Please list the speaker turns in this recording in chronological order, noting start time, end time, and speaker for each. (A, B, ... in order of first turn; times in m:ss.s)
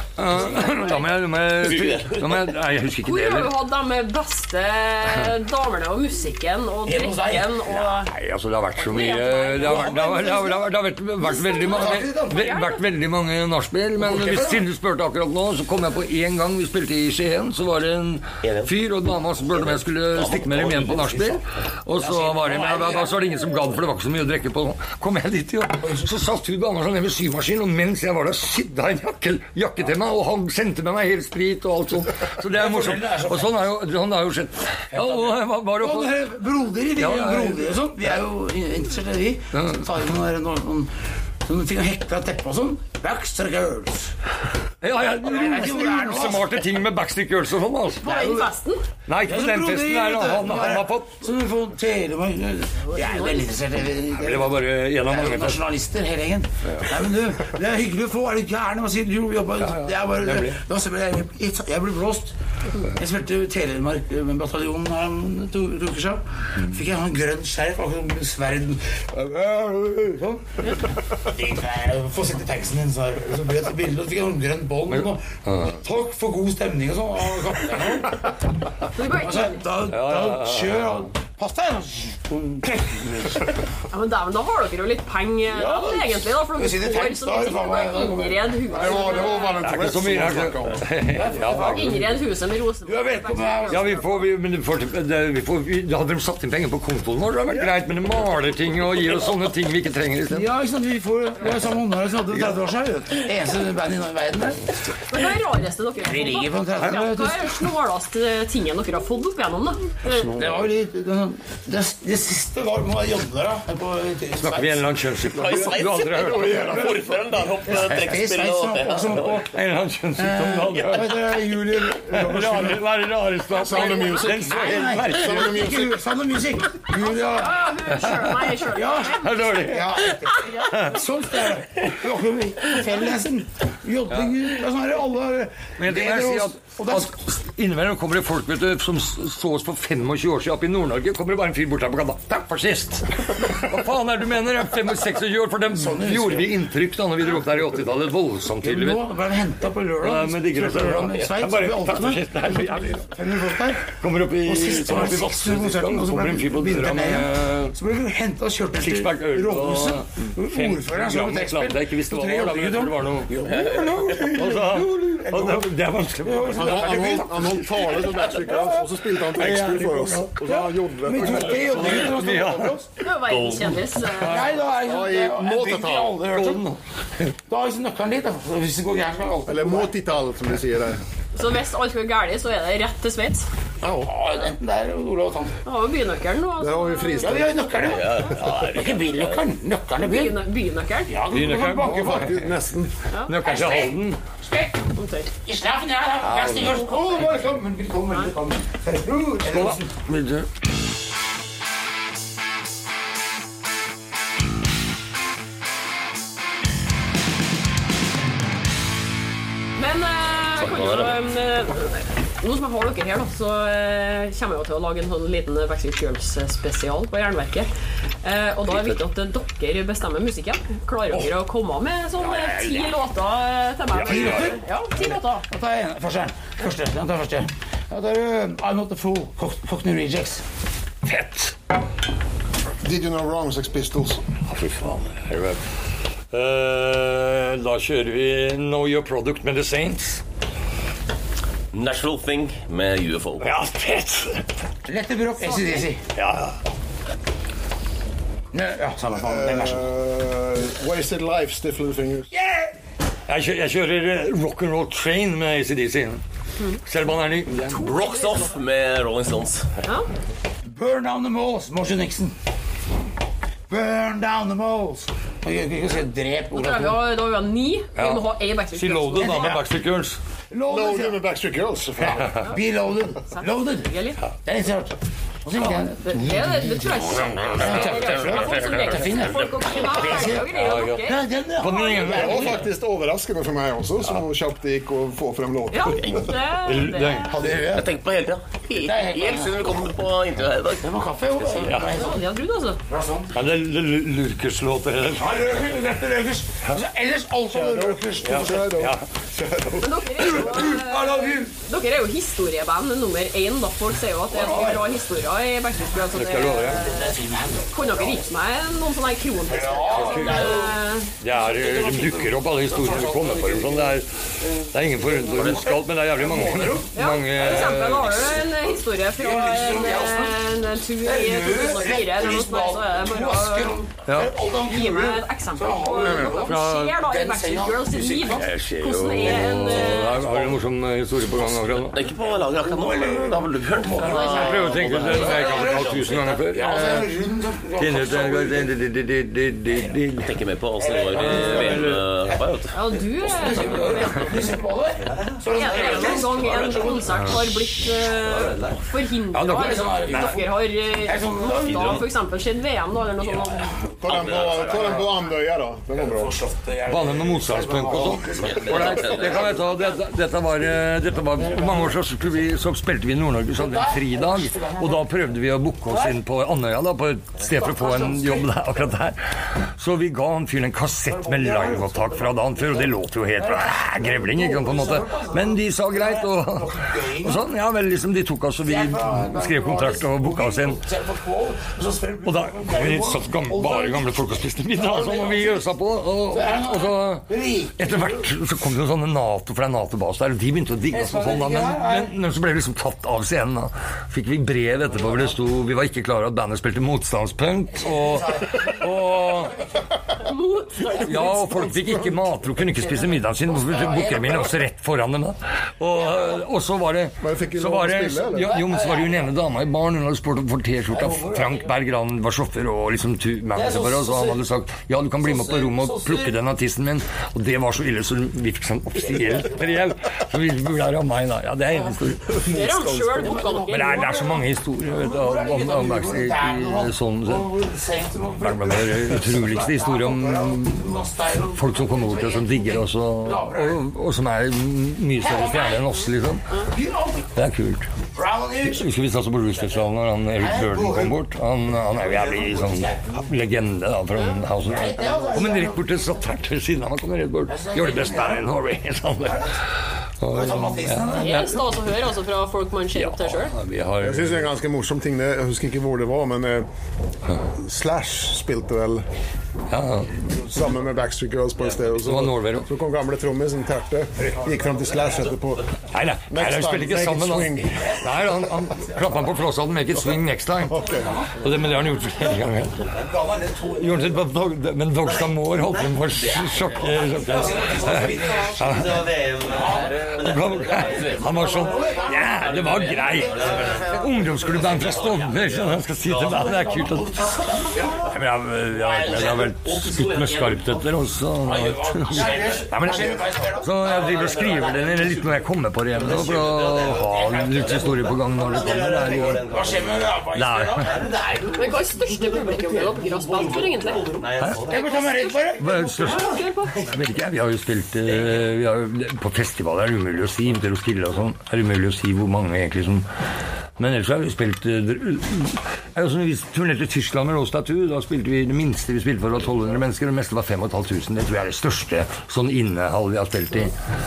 0:00.2-0:03.5 A
0:00.4-0:01.0 B
0:01.6-0:02.4 C
0:03.0-0:08.1 B
0:06.8-0:07.6 D
0:07.8-0:36.1 A
0:08.8-0:10.6 B
0:09.6-0:10.3 D
0:11.2-0:12.5 D
0:11.4-0:12.8 B
0:14.0-0:14.6 D
0:18.4-0:18.7 C
0:19.4-0:21.4 C
0:22.0-0:23.2 D
0:25.8-0:26.1 D
0:32.5-0:33.6 D
0:34.9-0:40.9 D
0:37.0-0:37.6 A
0:39.5-0:39.8 A
0:41.4-0:44.2 D
0:44.8-0:48.1 A
0:45.2-0:46.6 D
0:48.0-0:48.5 D
0:48.0-0:48.8 B
0:49.1-0:51.2 A
0:49.2-1:10.6 D
0:52.9-0:53.4 B
0:54.2-0:55.6 A
0:59.6-1:00.6 A
1:11.2-1:18.3 D
1:14.9-1:15.8 A
1:19.0-1:19.7 B
1:19.0-1:23.6 D
1:19.9-1:20.9 A
1:23.9-1:29.6 B
1:25.5-1:29.3 D
1:28.7-1:30.9 E
1:29.6-1:32.1 A
1:31.1-1:32.0 D
1:31.4-1:34.3 B
1:32.8-1:34.0 D
1:33.7-1:40.5 A
1:40.3-1:44.7 D
1:45.1-1:50.3 B
1:46.0-1:47.6 D
1:50.0-1:50.6 E
1:50.3-1:54.9 D
1:54.4-1:56.8 A
1:55.3-1:59.4 C
1:55.3-1:57.2 E
1:57.7-1:59.6 D
1:59.4-2:01.3 A
2:00.2-2:02.8 D
2:02.1-2:05.8 A
2:02.3-2:02.6 E
2:03.5-2:06.0 E
2:04.4-2:07.7 D
2:06.9-2:09.7 B
2:08.0-2:08.3 A
2:08.6-2:17.1 D
2:09.2-2:11.0 A
2:14.1-2:14.4 A
2:15.8-2:29.0 A
2:25.7-2:26.5 D
2:28.6-2:33.9 D
2:30.0-2:33.1 A
2:33.8-2:37.8 A
2:34.4-2:47.6 D
2:38.8-2:43.5 A
2:43.4-2:44.1 C
2:44.2-2:48.2 A
2:46.5-2:52.1 E
2:48.2-2:52.9 D
2:49.3-2:50.3 A
2:51.1-2:54.5 A
2:53.0-2:54.5 B
2:54.2-2:56.6 D
2:54.7-2:56.3 E
2:56.2-2:57.3 A
2:57.5-2:59.9 D
2:59.5-3:01.0 E
3:01.4-3:03.4 B
3:03.8-3:05.6 D
3:03.8-3:04.1 E
3:05.7-3:07.6 B
3:06.6-3:07.6 E
3:07.2-3:10.4 D
3:07.8-3:09.4 C
3:10.0-3:11.2 B
3:11.1-3:12.3 D
3:11.3-3:12.6 A
3:11.8-3:12.9 E
3:13.3-3:14.2 A
3:13.4-3:14.9 D
3:15.0-3:15.3 B
3:15.4-3:19.9 D
3:16.4-3:16.6 C
3:19.4-3:20.5 A
3:29.8-3:37.7 B
3:30.6-3:31.2 C
3:38.2-3:45.4 B
3:38.7-3:39.0 C
3:42.2-3:43.0 D
3:43.9-3:44.6 A
3:44.0-3:50.4 D
3:51.0-3:51.5 A
3:52.8-3:54.2 E
3:54.4-3:55.6 A
3:56.3-4:00.2 A
4:01.7-4:03.5 C
4:03.4-4:04.5 A
4:04.9-4:06.0 D
4:05.5-4:05.8 B
4:06.2-4:06.6 A
4:08.5-4:09.9 D
4:09.2-4:12.3 E
4:12.3-4:12.7 D
4:13.3-4:16.2 A
4:16.9-4:17.7 A
4:17.8-4:19.7 C
4:20.7-4:22.4 D
4:23.7-4:27.0 D
4:26.5-4:29.6 B
4:28.0-4:30.2 A
4:29.1-4:29.6 D
4:30.5-4:31.2 D
4:30.7-4:32.4 E
4:32.2-4:33.9 D
4:33.3-4:34.2 B
4:34.4-4:42.7 D
4:36.0-4:42.1 B
4:37.6-4:37.9 A
4:38.5-4:38.8 A
4:40.5-4:42.6 A
4:42.1-4:46.3 E
4:45.7-4:47.5 B
4:46.0-4:46.3 C
4:46.6-4:47.4 A
4:47.3-4:47.9 D
4:47.4-4:50.9 C
4:48.7-4:49.8 D
4:50.8-4:52.3 D
4:51.6-4:52.0 A
4:51.9-4:52.8 B
4:52.9-4:53.3 D
4:53.3-4:55.4 A
4:55.2-4:58.9 D
4:57.5-5:00.7 E
4:58.2-4:59.0 A
4:59.8-5:07.1 B
5:00.2-5:01.5 D
5:04.3-5:04.9 D
5:06.1-5:06.8 A
5:06.7-5:08.3 D
5:07.7-5:11.1 B
5:09.4-5:20.5 D
5:09.9-5:10.7 A
5:11.2-5:14.1 A
5:14.7-5:18.4 A
5:17.0-5:23.8 B
5:21.0-5:28.5 D
5:24.1-5:24.3 A
5:24.6-5:30.4 B
5:26.2-5:27.0 A
5:28.3-5:32.0 A
5:29.2-5:30.5 D
5:31.3-5:31.8 D
5:31.9-5:36.2 C
5:32.5-5:38.8 D
5:34.0-5:37.1 A
5:34.0-5:35.4 B
5:37.8-5:40.4 A
5:39.7-5:40.0 D
5:40.2-5:42.8 C
5:40.8-5:47.3 D
5:41.2-5:42.0 A
5:42.7-5:44.6 B
5:45.5-5:53.8 B
5:45.8-5:47.0 C
5:49.3-5:50.4 A
5:49.3-5:52.0 D
5:51.6-5:52.0 C
5:54.0-5:56.4 E
5:54.1-5:55.1 C
5:54.6-5:55.0 D
5:55.9-5:59.7 D
5:56.9-6:20.8 A
5:58.2-5:59.6 C
6:01.4-6:01.9 D
6:03.6-6:05.1 D
6:07.5-6:08.5 D
6:11.1-6:17.4 D
6:18.6-6:24.1 D
6:22.2-6:27.3 A
6:24.8-6:25.7 D
6:26.3-6:28.2 D
6:27.8-6:39.6 A
6:30.9-6:32.2 D
6:37.8-6:39.6 D
6:40.2-6:41.7 B
6:41.0-7:02.4 A
6:41.8-6:42.2 E
6:43.4-6:44.6 D
6:47.2-6:48.6 E
6:48.4-6:49.2 D
6:50.9-6:51.8 D
6:53.5-6:54.4 D
6:55.2-6:56.3 D
6:59.0-6:59.8 D
7:02.5-7:04.2 B
7:02.5-7:13.8 D
7:02.5-7:03.4 E
7:03.6-7:07.5 A
7:08.4-7:10.7 A
7:11.6-7:16.4 A
7:15.2-7:15.9 D
7:16.7-7:17.3 D
7:17.4-7:17.9 A
7:18.1-7:18.9 D
7:18.7-7:31.6 A
7:20.4-7:21.2 D
7:22.0-7:23.2 D
7:24.6-7:25.8 D
7:27.5-7:28.5 D
7:29.2-7:29.5 D
7:30.3-7:31.4 D
7:31.2-7:33.6 B
7:32.9-7:34.5 A
7:34.0-7:36.7 E
7:37.6-7:39.0 E
7:39.7-7:40.1 A
7:40.3-7:45.8 E
7:42.0-7:42.7 A
7:45.9-7:50.8 A
7:46.3-7:48.5 E
7:50.2-7:51.2 E
7:51.4-7:52.9 A
7:52.9-7:54.0 D
7:53.7-7:59.1 A
7:56.2-7:56.5 C
7:57.2-8:00.3 D
7:59.0-8:05.8 C
8:00.1-8:07.2 A
8:01.0-8:03.8 D
8:06.1-8:08.0 D
8:08.0-8:19.5 A
8:08.7-8:10.9 C
8:11.4-8:15.1 D
8:12.2-8:12.7 C
8:13.8-8:15.3 C
8:15.9-8:20.2 C
8:16.1-8:16.5 D
8:17.6-8:21.2 D
8:20.3-8:20.9 A
8:20.8-8:25.0 C
8:21.5-8:26.8 B
8:24.4-8:24.6 A
8:24.6-8:26.2 D
8:25.6-8:33.1 A
8:33.8-8:43.7 A